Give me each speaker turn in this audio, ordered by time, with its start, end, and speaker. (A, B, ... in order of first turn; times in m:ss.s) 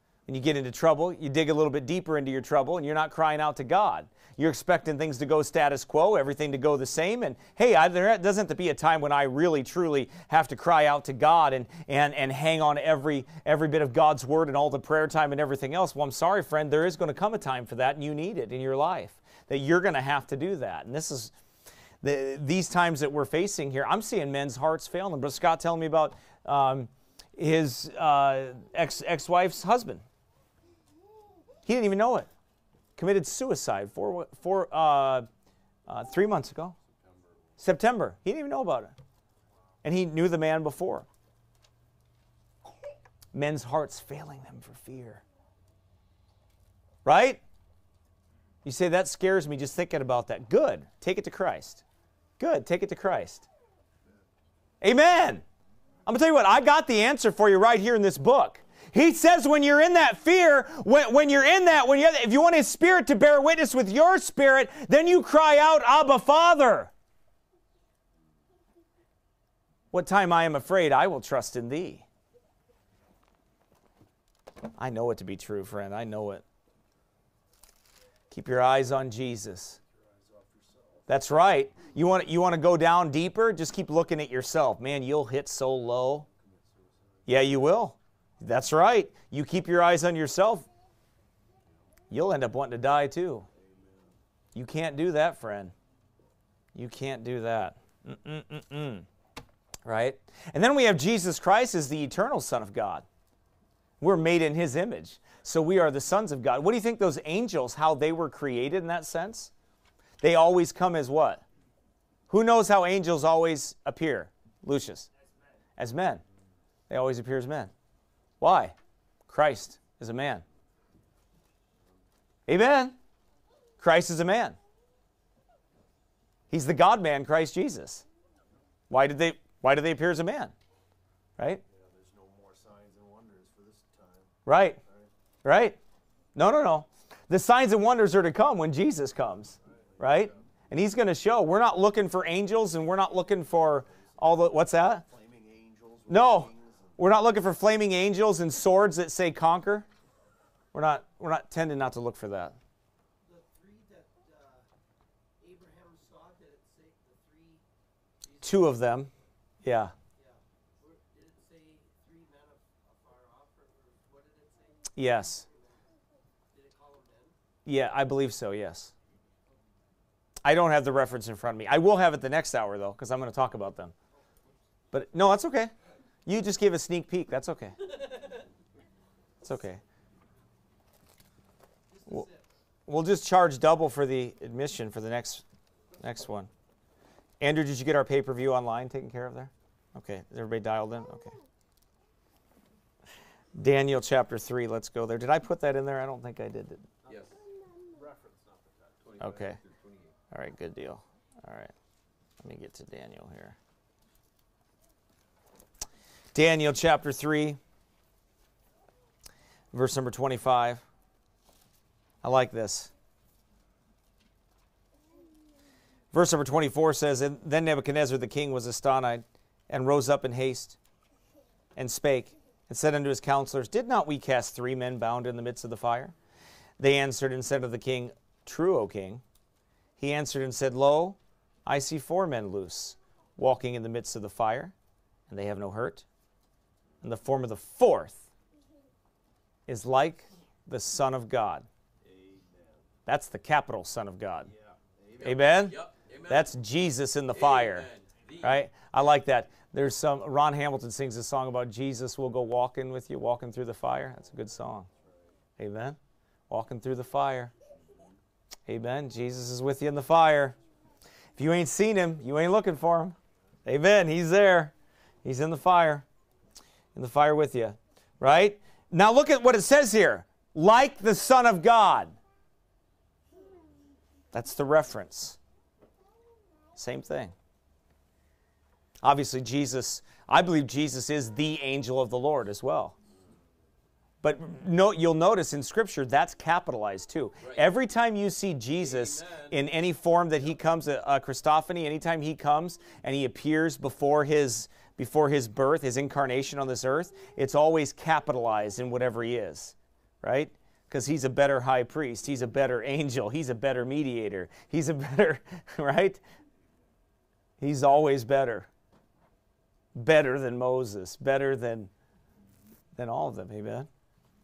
0:00.3-0:21.3 A
0:22.0-0:30.0 A
0:31.7-0:32.3 A
0:33.0-0:35.3 A
0:35.9-0:36.8 A
0:36.9-0:37.6 B
0:37.6-0:38.9 A
0:39.8-0:41.1 A
0:43.3-0:45.2 A
0:47.0-0:47.4 A
0:48.6-0:51.8 A
0:52.4-0:53.5 A
0:54.8-0:55.4 A
0:56.1-1:06.9 A
1:09.9-1:12.0 A
1:14.8-1:16.4 A
1:18.3-1:19.8 A
1:19.9-1:21.1 B
1:21.1-1:26.3 A
1:26.3-1:27.3 B
1:27.3-1:30.7 A
1:32.1-1:33.5 A
1:33.5-1:34.2 B
1:34.6-1:35.7 A
1:36.8-1:39.1 A
1:39.8-1:43.1 A
1:44.0-1:49.5 A
1:50.2-1:51.4 A
1:52.3-1:55.1 A
1:55.8-1:56.2 A
1:56.9-1:57.7 A
1:58.4-1:58.8 A
1:59.3-2:00.4 A
2:02.5-2:03.0 A
2:03.8-2:04.6 A
2:06.5-2:08.0 A
2:08.9-2:10.5 A
2:11.7-2:15.1 B
2:14.5-2:14.8 A
2:15.4-2:15.8 A
2:16.4-2:25.0 A
2:19.7-2:20.3 B
2:25.0-2:27.0 B
2:26.1-2:29.9 A
2:30.7-2:32.6 A
2:33.2-2:34.7 C
2:35.4-2:37.7 C
2:38.2-2:39.0 C
2:38.4-2:39.1 A
2:39.6-2:39.9 A
2:40.2-2:45.9 C
2:45.0-2:45.4 A
2:46.5-2:47.4 C
2:47.7-2:48.9 A
2:50.4-2:53.9 A
2:54.9-2:55.7 A
2:56.3-2:57.8 A
2:59.4-2:59.8 A
3:01.9-3:02.5 C
3:02.9-3:05.4 A
3:06.0-3:06.5 A
3:07.4-3:11.4 A
3:13.6-3:16.9 A
3:17.0-3:17.4 D
3:17.9-3:19.2 B
3:19.0-3:20.2 D
3:19.2-3:19.6 A
3:20.3-3:21.7 A
3:22.4-3:23.6 A
3:26.3-3:27.6 A
3:29.7-3:30.8 A
3:32.2-3:32.9 A
3:36.1-3:40.8 A
3:41.8-3:46.1 A
3:46.8-3:49.2 A
3:50.0-3:54.7 A
3:55.3-3:56.1 A
3:57.0-3:58.3 A
3:59.7-4:01.7 A
4:02.0-4:02.8 B
4:03.1-4:04.5 A
4:04.5-4:05.3 B
4:05.2-4:06.5 D
4:05.2-4:07.9 A
4:07.3-4:08.6 D
4:08.4-4:14.9 A
4:15.6-4:16.0 A
4:16.5-4:17.5 A
4:18.7-4:20.6 A
4:21.4-4:24.7 A
4:25.2-4:26.0 A
4:27.0-4:32.2 A
4:34.3-4:35.4 A
4:36.8-4:37.3 A
4:39.0-4:43.0 A
4:44.2-5:06.2 A
4:47.4-4:47.7 D
4:48.8-4:49.6 D
5:07.6-5:08.7 A
5:10.0-5:11.9 A
5:13.0-5:13.9 A